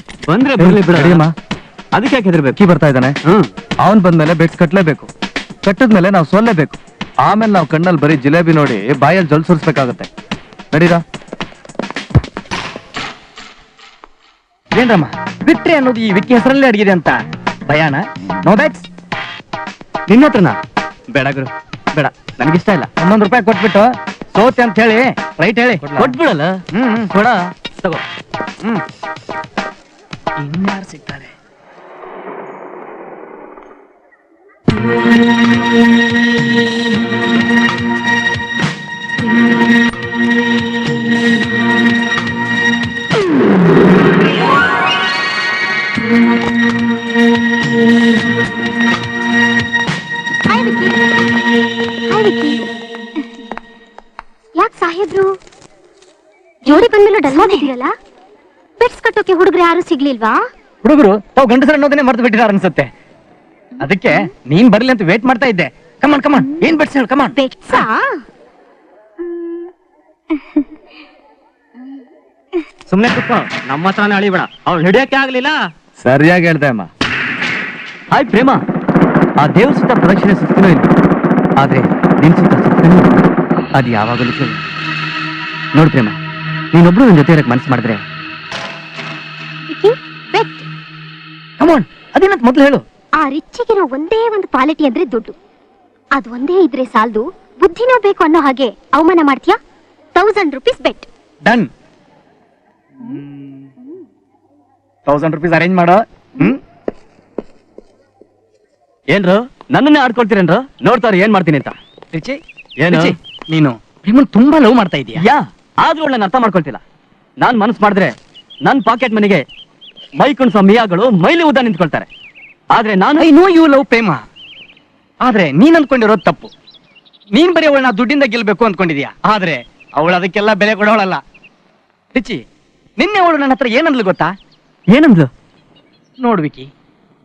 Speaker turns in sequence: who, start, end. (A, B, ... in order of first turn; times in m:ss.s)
0:00.3-0:01.2 A
0:00.6-0:01.2 B
0:01.9-0:02.6 A
0:02.6-0:03.1 B
0:04.0-0:05.0 B
0:05.7-0:06.7 B
0:07.3-0:10.1 B
0:10.7-0:11.0 B
0:14.7-0:18.9 C
0:20.1-0:20.6 A
0:21.1-0:22.9 A
0:23.0-0:26.0 C
0:25.9-0:26.5 A
0:26.7-0:27.1 C
0:27.1-0:28.0 A
0:30.4-0:31.3 C
0:50.5-0:51.0 D
0:52.1-0:52.6 D
0:54.6-0:55.3 D
0:56.6-0:57.9 D
0:58.8-1:00.4 D
1:00.8-1:02.9 C
1:03.8-1:07.8 C
1:07.4-1:08.1 D
1:16.1-1:16.8 B
1:18.1-1:18.6 A
1:19.4-1:20.9 A
1:21.6-1:23.2 A
1:23.8-1:24.6 A
1:25.7-1:26.2 A
1:26.7-1:28.0 A
1:29.7-1:30.6 D
1:31.6-1:32.8 C
1:33.2-1:35.3 D
1:36.2-1:39.6 D
1:40.2-1:41.1 D
1:43.0-1:43.7 C
1:45.0-1:46.6 C
1:49.1-1:51.8 A
1:52.1-1:55.2 C
1:52.8-1:53.1 A
1:55.2-1:56.8 A
1:57.4-1:58.1 A
1:58.6-1:59.4 A
2:00.2-2:02.1 A
2:02.7-2:03.3 A
2:03.2-2:04.2 C
2:05.2-2:06.5 C
2:07.3-2:11.2 C
2:12.1-2:12.4 C
2:13.0-2:14.3 C
2:14.9-2:15.3 A
2:16.2-2:16.7 C